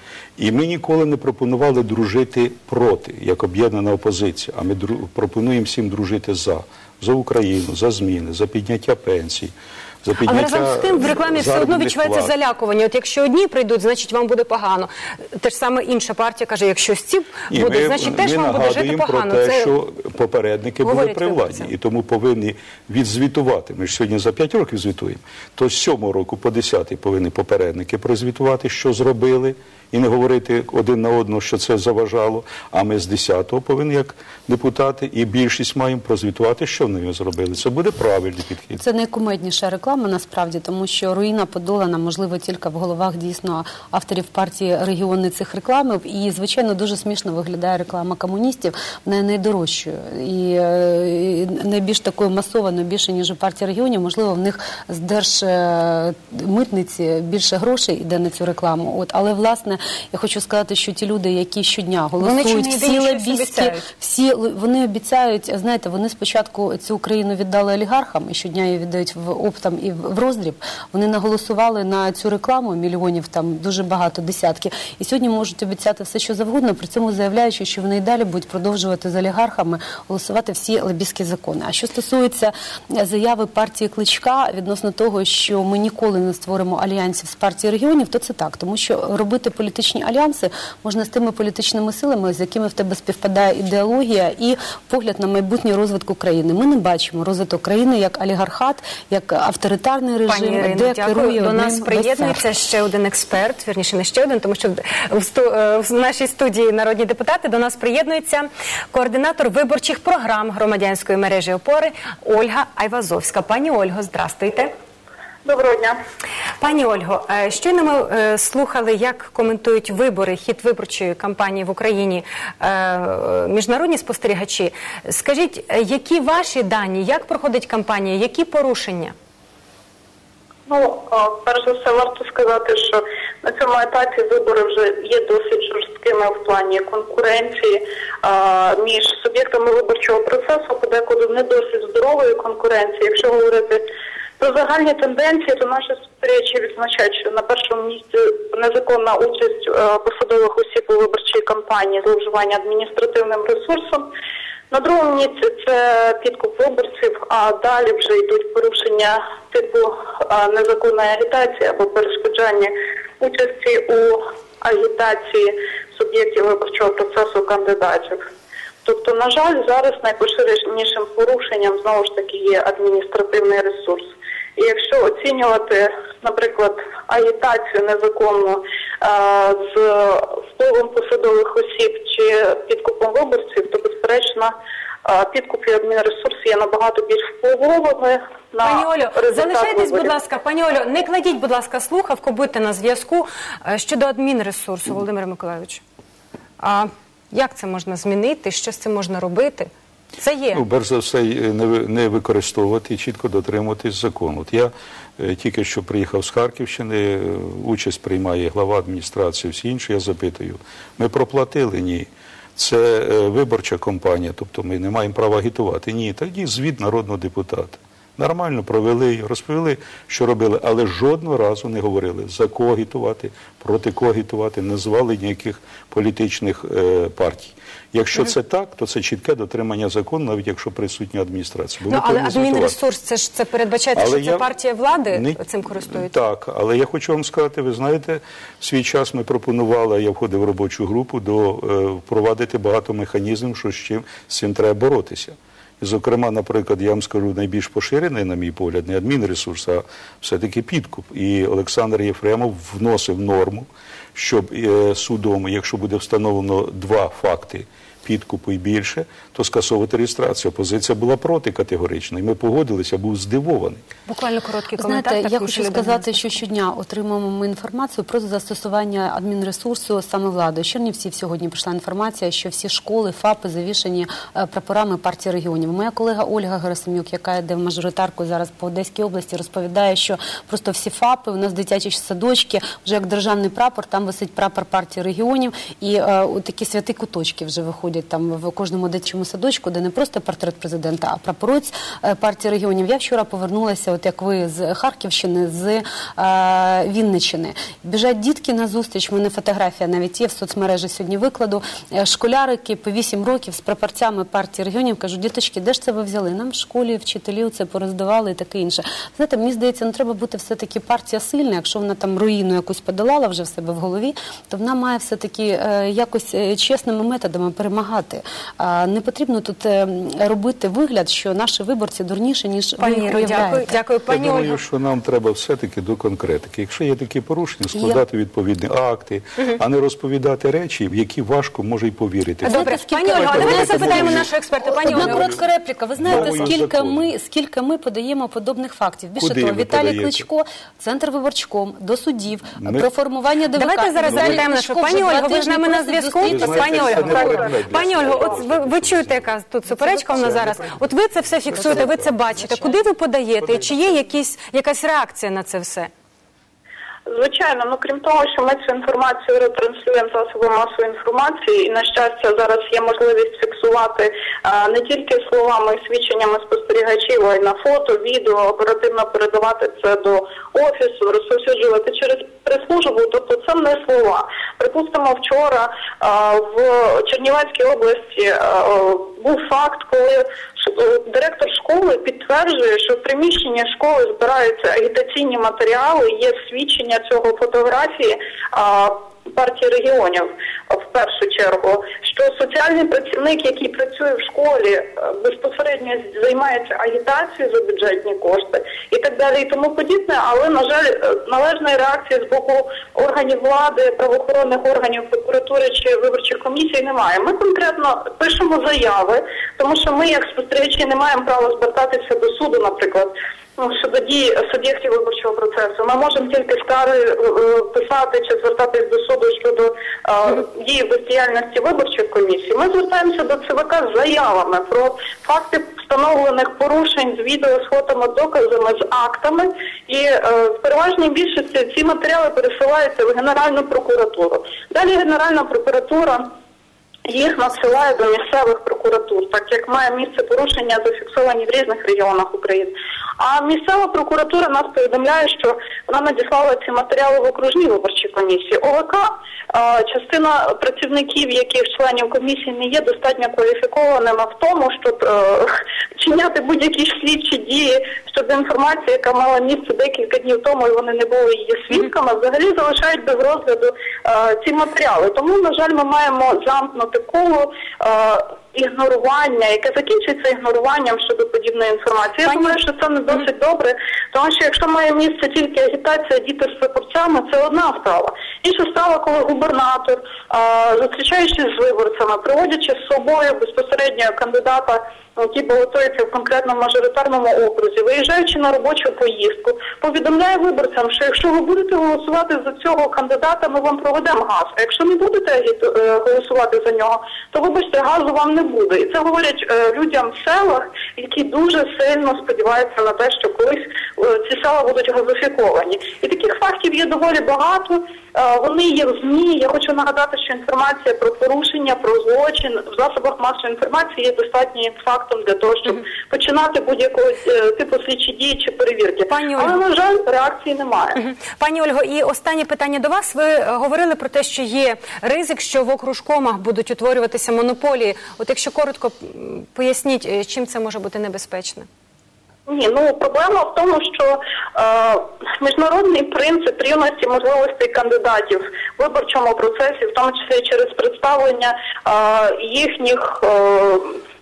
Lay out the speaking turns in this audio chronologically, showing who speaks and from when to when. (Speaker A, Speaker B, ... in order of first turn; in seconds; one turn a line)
Speaker A: 0.4-9.5
Speaker A: 10.0-12.3
Speaker B: 10.3-19.7
Speaker A: 17.5-38.8
Speaker B: 20.8-21.7
Speaker C: 38.8-102.5
Speaker B: 62.2-63.9
Speaker B: 100.3-114.7
Speaker D: 115.5-116.0
Speaker B: 116.6-129.2
Speaker D: 130.7-143.8
Speaker D: 144.4-154.1
Speaker D: 154.7-168.2
Speaker D: 168.8-190.1
Speaker B: 188.6-195.8
Speaker B: 196.6-200.6
Speaker A: 200.5-232.8
Speaker B: 231.9-236.2
Speaker A: 233.9-234.5
Speaker A: 235.1-263.8
Speaker B: 264.1-266.4
Speaker C: 264.8-323.7
Speaker B: 322.8-324.6
Speaker A: 324.1-335.4
Speaker C: 327.7-328.0
Speaker B: 332.4-335.4
Speaker C: 332.4-347.4
Speaker A: 336.0-337.1
Speaker B: 336.2-336.5
Speaker A: 339.2-340.2
Speaker A: 342.6-342.9
Speaker B: 343.6-355.9
Speaker A: 344.0-344.5
Speaker A: 346.2-349.3
Speaker C: 349.8-350.4
Speaker A: 350.1-350.9
Speaker A: 351.4-352.8
Speaker A: 353.4-353.9
Speaker D: 357.1-436.3
Speaker D: 437.1-521.0
Speaker B: 472.2-472.6
Speaker B: 519.1-519.6
Speaker B: 521.0-531.7
Speaker D: 532.5-544.0